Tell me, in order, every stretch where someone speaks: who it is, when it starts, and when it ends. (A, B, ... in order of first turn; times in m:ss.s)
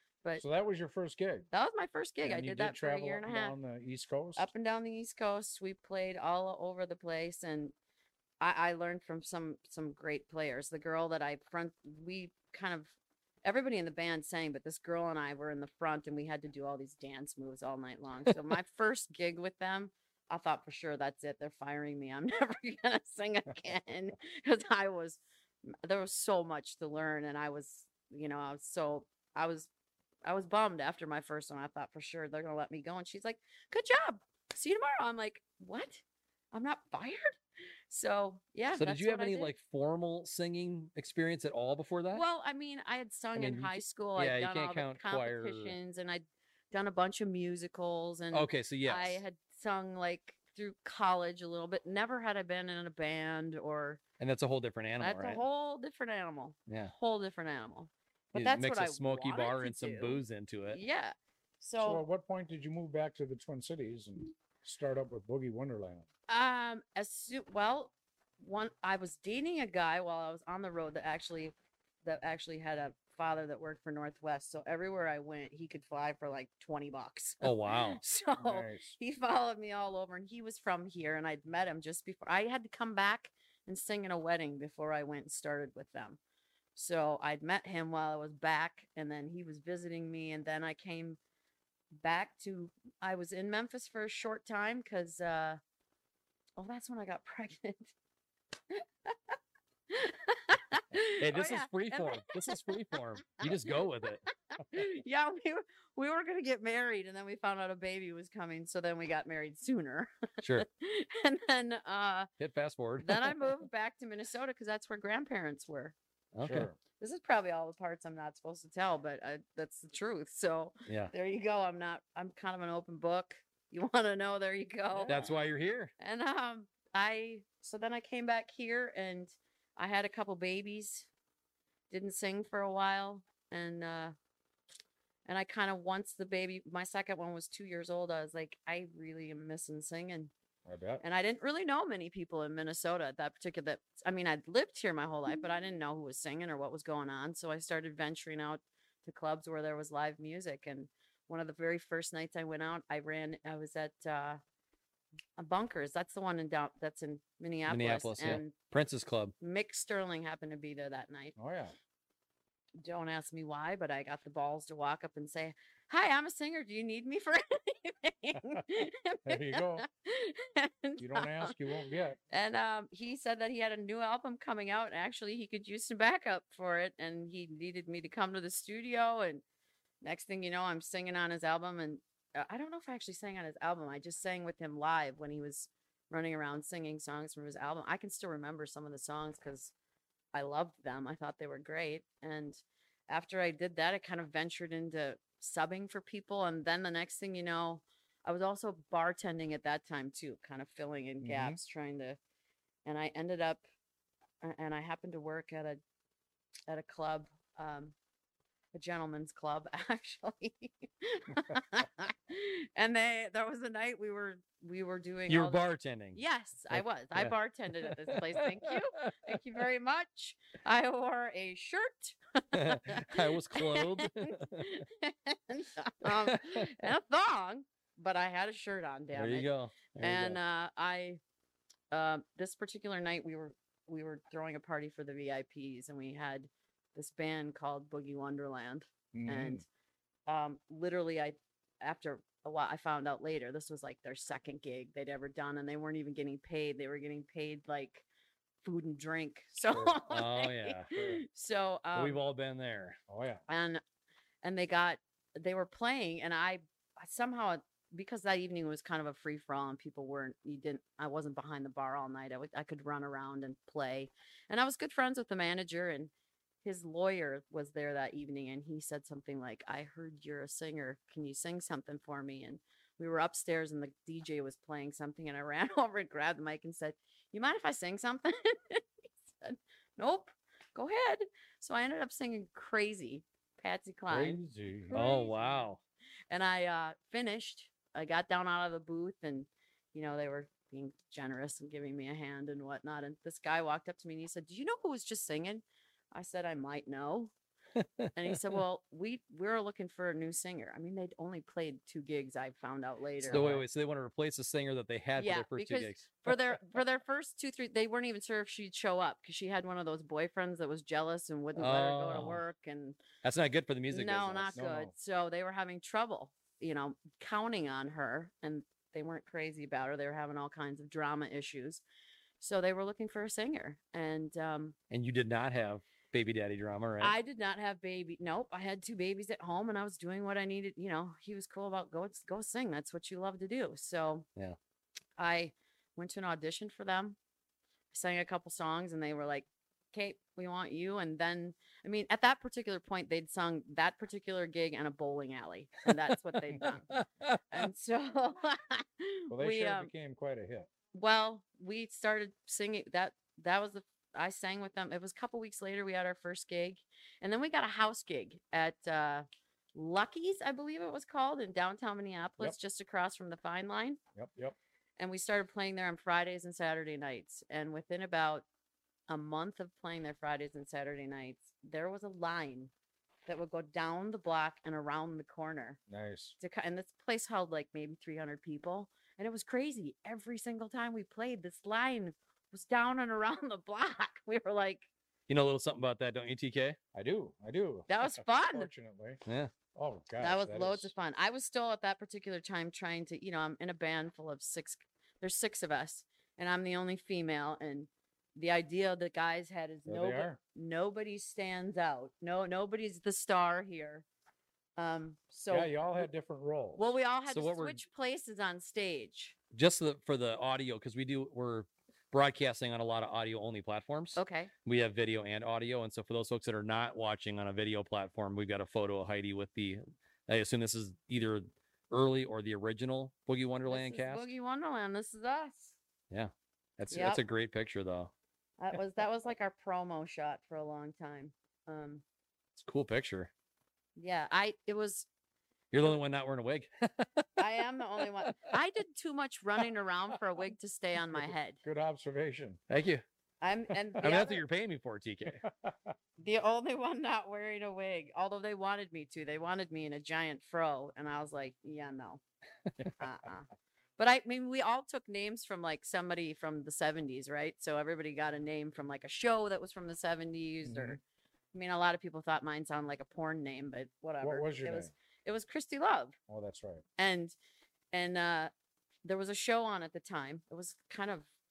0:00.4-0:01.5 A
0:01.5-0:03.6 B
0:02.2-0:04.5 A
0:04.4-0:07.7 B
0:08.4-0:29.7 B
0:30.2-0:37.4 B
0:37.9-0:39.5 B
0:38.7-0:42.2 C
0:42.1-0:54.0 B
0:43.4-0:45.8 C
0:48.3-0:49.2 C
0:54.2-0:55.4 C
0:55.0-1:02.0 B
0:56.7-0:56.9 C
0:58.3-1:00.8 C
1:01.8-1:06.1 A
1:06.3-1:26.2 B
1:17.4-1:18.0 C
1:18.4-1:19.0 A
1:26.8-1:31.2 B
1:31.9-1:35.6 B
1:36.6-1:37.9 B
1:38.7-1:39.3 B
1:39.9-1:42.8 B
1:41.2-1:44.2 C
1:43.4-1:43.8 B
1:44.6-1:52.3 B
1:50.4-1:50.7 C
1:52.4-1:53.6 C
1:53.0-1:56.0 B
1:56.3-1:56.7 C
1:56.4-1:56.8 A
1:57.0-2:05.3 B
2:00.9-2:01.1 C
2:04.9-2:05.2 A
2:05.1-2:05.9 C
2:06.0-2:11.1 B
2:11.9-2:14.2 B
2:15.3-2:20.3 B
2:20.7-2:21.0 A
2:21.0-2:34.4 B
2:35.4-2:38.5 B
2:37.7-2:39.3 C
2:39.4-2:41.4 B
2:41.4-2:41.8 A
2:42.8-2:51.6 B
2:48.4-2:48.6 A
2:49.2-2:49.9 A
2:51.0-2:52.2 A
2:52.3-2:59.4 B
3:00.0-3:09.7 B
3:10.3-3:22.2 B
3:21.2-3:21.6 A
3:22.8-3:23.6 B
3:24.4-3:25.8 B
3:26.7-3:28.0 B
3:28.7-3:51.2 B
3:35.3-3:36.2 C
3:36.7-3:39.3 C
3:42.5-3:44.8 C
3:46.1-3:46.7 C
3:49.1-3:50.4 C
3:51.9-3:59.6 B
3:59.1-3:59.6 A
4:00.3-4:08.0 B
4:08.6-4:12.2 B
4:10.1-4:10.9 C
4:10.9-4:11.2 A
4:12.0-4:13.0 C
4:13.1-4:13.4 A
4:13.5-4:13.8 B
4:14.4-4:26.1 B
4:26.6-4:45.7 B
4:44.1-4:45.0 A
4:44.9-4:45.8 C
4:46.3-4:57.3 B
4:57.8-4:58.4 C
4:58.2-5:03.6 B
5:03.3-5:03.6 A
5:03.3-5:06.5 C
5:05.2-5:13.0 B
5:11.6-5:12.4 C
5:13.2-5:14.6 C
5:13.9-5:21.8 B
5:14.5-5:14.9 A
5:22.4-5:24.8 B
5:24.9-5:27.2 C
5:27.0-5:34.3 B
5:35.2-5:37.2 B
5:37.9-5:46.9 B
5:46.6-5:47.4 C
5:47.5-5:49.9 B
5:49.3-5:50.7 A
5:50.9-6:04.0 B
6:04.2-6:04.6 A
6:05.0-6:08.4 B
6:09.1-6:12.7 B
6:13.3-6:15.8 B
6:15.9-6:16.4 A
6:16.4-6:24.9 B
6:25.3-6:26.8 C
6:26.9-6:29.2 A
6:27.9-6:28.7 B
6:29.3-6:29.5 C
6:29.7-6:30.9 A
6:30.2-6:44.0 B
6:39.9-6:40.4 A
6:44.8-6:46.1 B
6:45.5-6:47.0 A
6:46.8-6:49.4 B
6:47.3-6:47.8 C
6:49.5-7:04.3 C
6:54.2-6:54.5 B
7:03.7-7:05.8 B
7:06.1-7:08.1 C
7:06.9-7:07.2 B
7:08.6-7:12.0 B
7:12.6-7:13.3 C
7:14.0-7:15.1 B
7:15.7-7:17.3 C
7:17.4-7:21.6 B
7:21.1-7:22.6 A
7:22.7-7:23.0 C
7:23.4-7:24.4 B
7:24.0-7:25.4 C
7:25.4-7:25.9 A
7:26.2-7:32.2 B
7:32.9-7:33.5 B
7:34.0-7:41.0 B
7:40.6-7:41.0 A
7:41.5-7:46.2 B
7:44.2-7:44.9 A
7:46.3-7:46.8 A
7:47.0-7:47.4 B
7:47.9-7:48.5 B
7:49.0-7:51.3 B